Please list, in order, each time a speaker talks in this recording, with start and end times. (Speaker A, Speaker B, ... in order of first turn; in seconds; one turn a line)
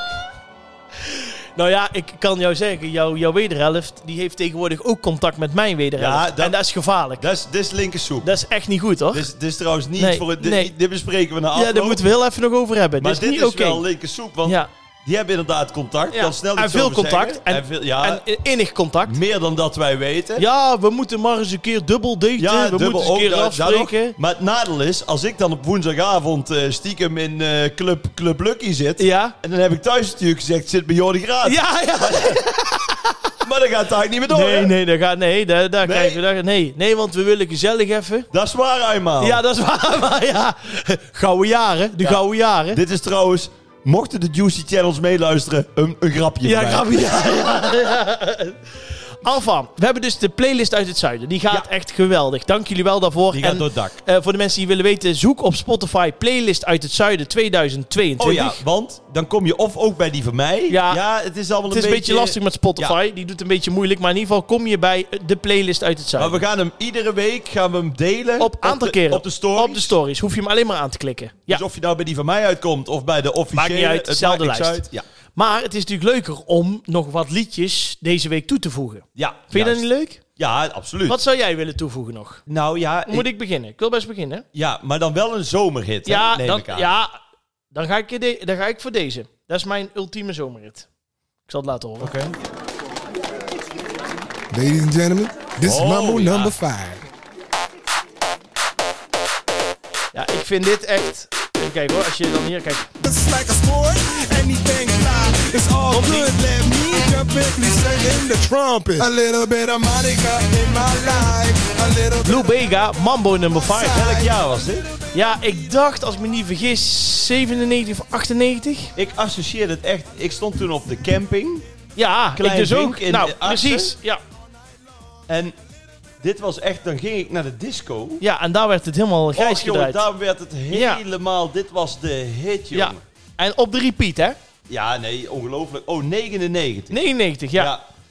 Speaker A: 1.1-7.2
Speaker B: 6.0-6.6
Speaker B: 7.2-8.3
Speaker A: 8.2-9.3
Speaker B: 9.1-12.0
Speaker A: 10.0-10.7
Speaker A: 11.5-13.8
Speaker B: 13.0-18.2
Speaker A: 16.1-19.2
Speaker B: 19.1-20.4
Speaker A: 20.4-24.1
Speaker B: 22.4-32.5
Speaker A: 29.0-29.3
Speaker A: 31.4-33.2
Speaker B: 33.4-34.7
Speaker A: 34.3-38.3
Speaker B: 35.8-36.2
Speaker B: 38.3-39.4
Speaker A: 39.2-42.8
Speaker B: 42.0-47.0
Speaker A: 46.4-48.6
Speaker A: 49.2-58.6
Speaker B: 53.3-54.0
Speaker B: 58.2-63.0
Speaker A: 60.7-61.0
Speaker A: 61.7-66.4
Speaker B: 66.2-70.0
Speaker A: 68.4-71.6
Speaker B: 71.5-75.0
Speaker A: 73.5-74.8
Speaker A: 75.3-80.2
Speaker B: 79.2-79.8
Speaker B: 80.4-81.2
Speaker A: 81.1-82.4
Speaker B: 82.5-83.3
Speaker A: 83.1-84.4
Speaker B: 84.5-86.9
Speaker A: 86.0-87.1
Speaker A: 87.7-90.9
Speaker A: 91.5-92.1
Speaker B: 92.0-92.3
Speaker C: 94.5-97.0
Speaker B: 95.6-96.5
Speaker A: 100.1-102.9
Speaker C: 103.0-112.6
Speaker A: 105.9-106.3
Speaker A: 112.2-114.0
Speaker C: 113.6-114.3
Speaker B: 113.9-114.9
Speaker A: 115.1-118.9
Speaker B: 118.9-121.7
Speaker A: 122.0-124.2
Speaker B: 122.3-123.9
Speaker B: 125.3-125.6
Speaker B: 126.2-128.2
Speaker A: 128.2-130.0
Speaker B: 129.3-133.0
Speaker A: 130.7-131.0
Speaker A: 132.7-134.4
Speaker B: 134.7-137.0
Speaker A: 136.9-137.7
Speaker B: 137.5-137.8